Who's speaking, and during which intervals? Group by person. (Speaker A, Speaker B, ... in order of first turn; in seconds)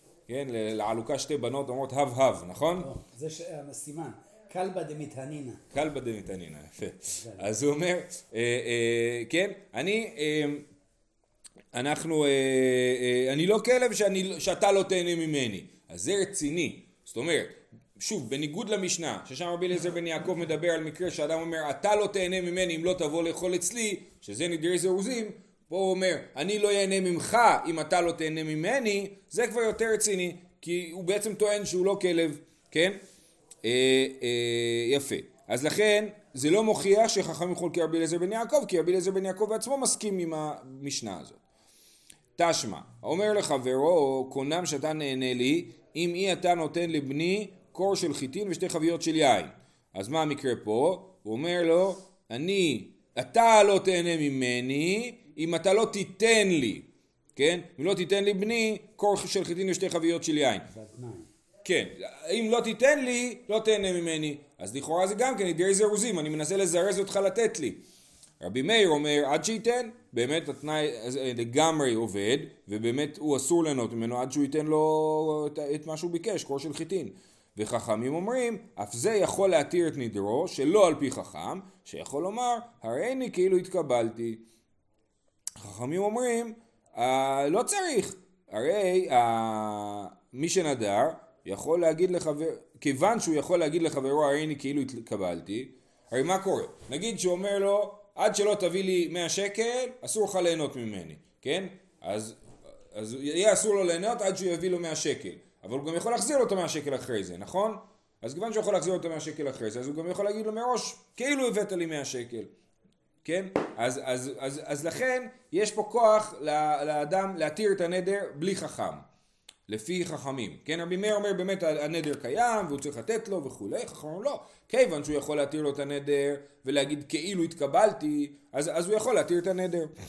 Speaker A: 0.3-2.9, 5.7-10.7, 11.7-33.0, 33.6-41.4, 42.4-60.7, 61.6-67.8, 68.4-84.4, 85.6-112.5, 113.2-119.0, 119.7-129.9
Speaker B: 2.8-5.6, 7.1-7.5, 60.7-61.3